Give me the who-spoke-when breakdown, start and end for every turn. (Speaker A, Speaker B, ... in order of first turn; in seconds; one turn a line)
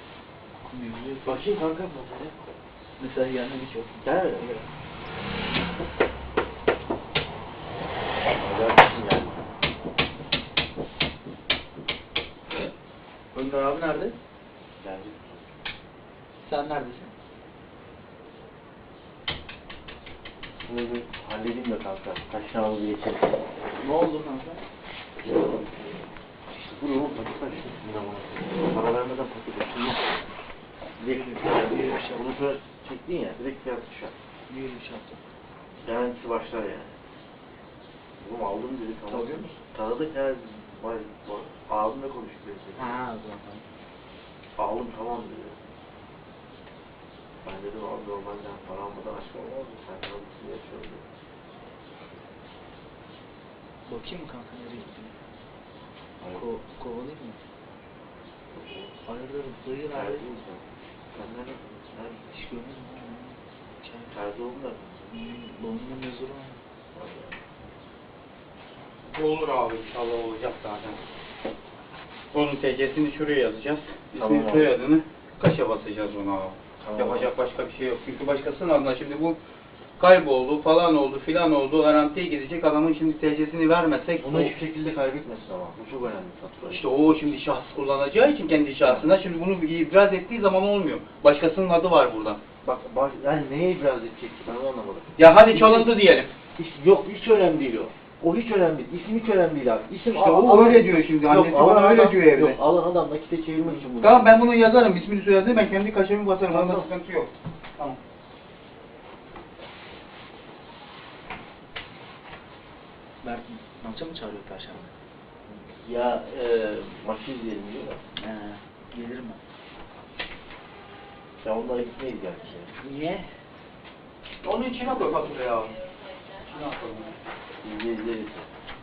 Speaker A: 0.6-1.5
Speaker B: 1.2-2.4
Speaker A: 3.0-4.7
Speaker B: 4.0-4.5
Speaker B: 8.3-9.4
Speaker A: 13.3-14.2
Speaker B: 14.8-15.5
Speaker A: 16.4-17.1
Speaker B: 20.6-23.4
Speaker A: 23.8-24.6
Speaker B: 25.2-26.0
Speaker B: 26.5-30.2
Speaker B: 31.0-34.1
Speaker A: 31.0-32.3
Speaker A: 34.5-35.2
Speaker B: 35.8-37.0
Speaker B: 38.2-43.0
Speaker A: 39.1-39.5
Speaker A: 42.8-43.7
Speaker B: 44.6-45.6
Speaker B: 47.4-51.1
Speaker A: 53.9-55.2
Speaker A: 56.3-57.4
Speaker B: 58.5-59.0
Speaker A: 59.1-60.3
Speaker B: 59.9-62.2
Speaker A: 62.2-64.2
Speaker B: 64.1-65.1
Speaker A: 65.1-66.6
Speaker B: 66.9-67.4
Speaker C: 69.1-71.0
Speaker C: 72.3-79.4
Speaker B: 74.2-74.7
Speaker B: 76.8-77.3
Speaker C: 80.0-84.5
Speaker B: 84.2-86.8
Speaker C: 86.7-92.4
Speaker B: 88.9-89.1
Speaker B: 92.6-95.9
Speaker C: 95.2-96.3
Speaker B: 96.6-104.4
Speaker C: 100.1-102.6
Speaker C: 104.0-108.0
Speaker B: 106.5-106.9
Speaker A: 113.2-114.9
Speaker B: 115.5-118.0
Speaker A: 118.1-119.4
Speaker B: 121.4-122.7
Speaker A: 122.8-123.3
Speaker C: 124.4-125.8
Speaker C: 126.5-127.2
Speaker B: 127.6-128.5